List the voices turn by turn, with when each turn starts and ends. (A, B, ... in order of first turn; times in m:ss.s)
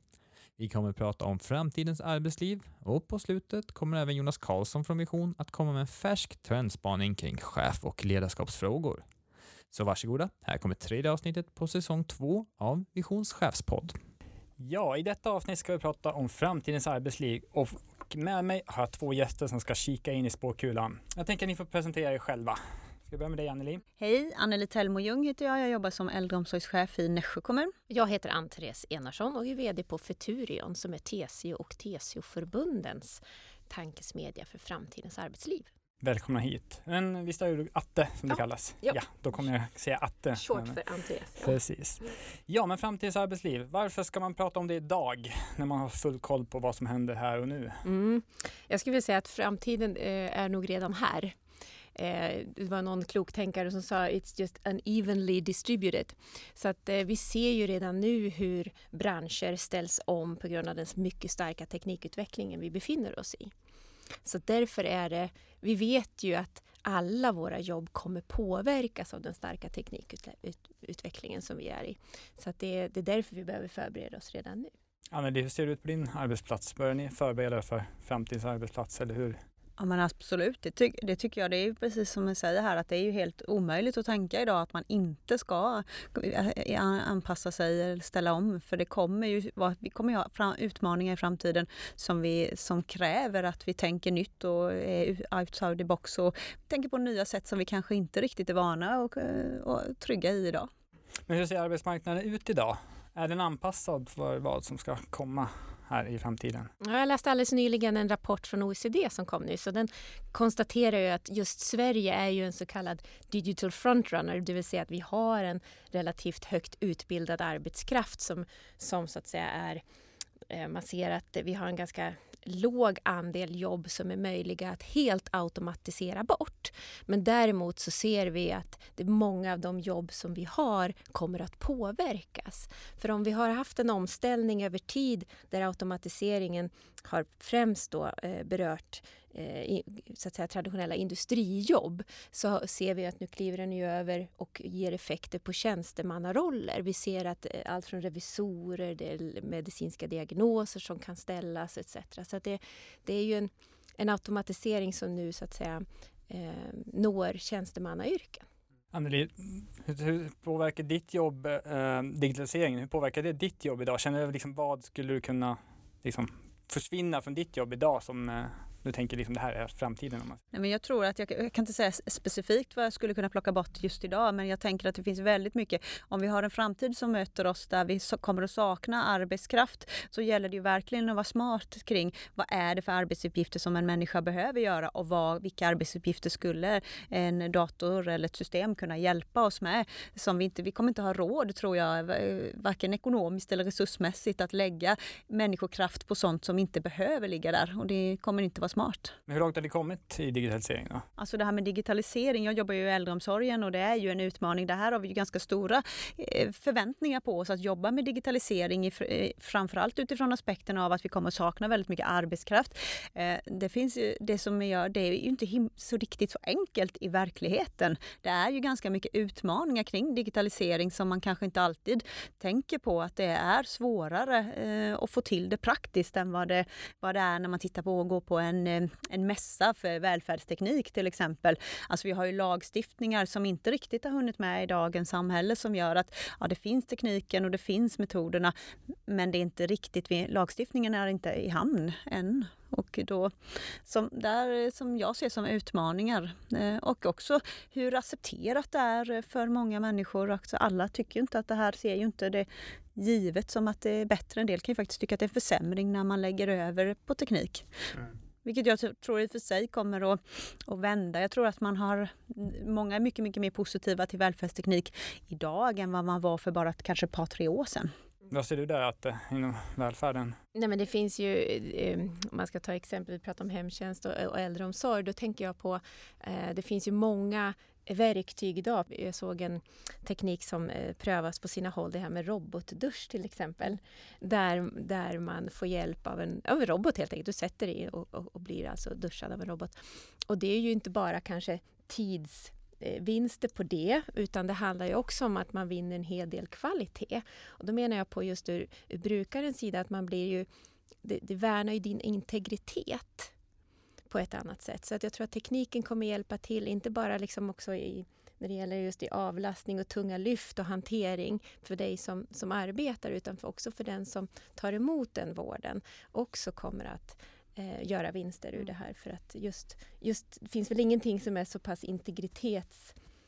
0:00.6-0:09.0 A
0:09.7-0:14.0 A
0:14.6-0:23.8 B
0:24.0-0:27.7 C
0:27.9-0:35.7 D
0:36.0-0:40.8 B
0:38.3-0:39.0 D
0:40.3-0:41.6 D
0:41.4-0:47.8 B
0:47.8-0:51.4 D
0:51.9-1:03.5 D
1:04.2-1:14.7 D
1:15.1-1:19.4 B
1:19.8-1:40.7 C
1:41.3-1:46.7 B
1:46.8-1:59.8 D
2:00.5-2:38.4 D
2:38.9-2:50.4 B
2:50.5-3:19.2 C
3:19.3-3:21.0 B
3:21.2-3:58.5 C
3:59.1-4:17.7 C
4:18.4-4:27.9 C
4:28.3-4:30.4 B
4:30.5-5:00.5 D
5:01.0-5:03.3 D
5:04.1-5:23.0 D